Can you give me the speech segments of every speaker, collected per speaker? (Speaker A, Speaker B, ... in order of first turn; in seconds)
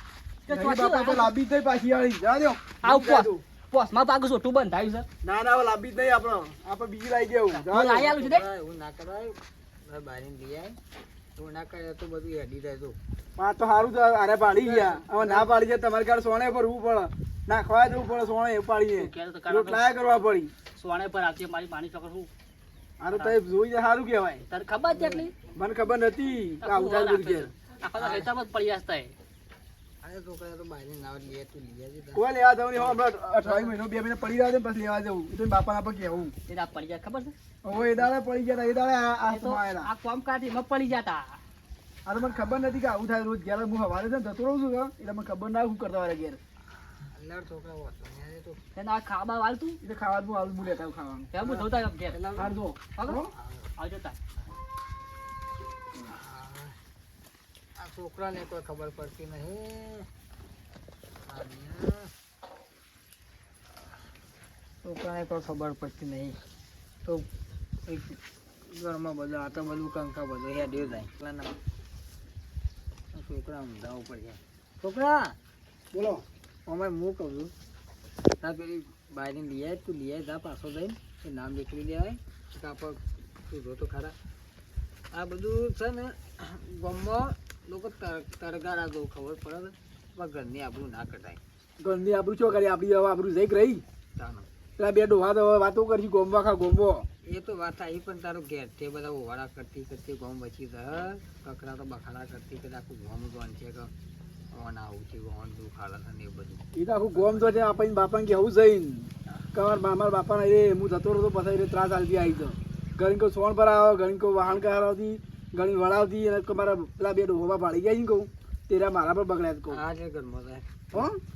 Speaker A: 0.5-1.3, 2.8-5.1, 7.5-8.4, 19.0-19.8, 20.8-22.3, 23.1-23.4, 24.5-25.3, 26.6-29.1, 33.4-33.7, 36.5-37.3, 39.3-41.4, 48.8-49.8, 51.3-52.2, 53.0-53.2, 53.8-54.2
Speaker B: 0.5-3.4, 5.2-8.2, 13.4-20.5, 23.0-24.4, 25.6-28.3, 32.1-36.3, 37.6-39.9, 42.1-46.4, 49.8-51.3, 52.4-53.3, 75.9-76.2, 91.8-93.8, 94.8-97.0, 106.8-119.8
Speaker C: 8.2-10.8, 11.4-13.0, 14.6-15.5, 24.9-25.3, 30.0-32.2, 47.1-48.6, 51.4-52.5, 53.3-53.7, 56.1-56.8, 57.8-60.1, 61.2-62.1, 64.8-66.4, 67.9-71.6, 73.1-75.4, 76.7-77.5, 78.4-84.2, 85.1-91.4, 94.2-94.5, 97.3-103.9, 104.5-107.5, 119.7-120.7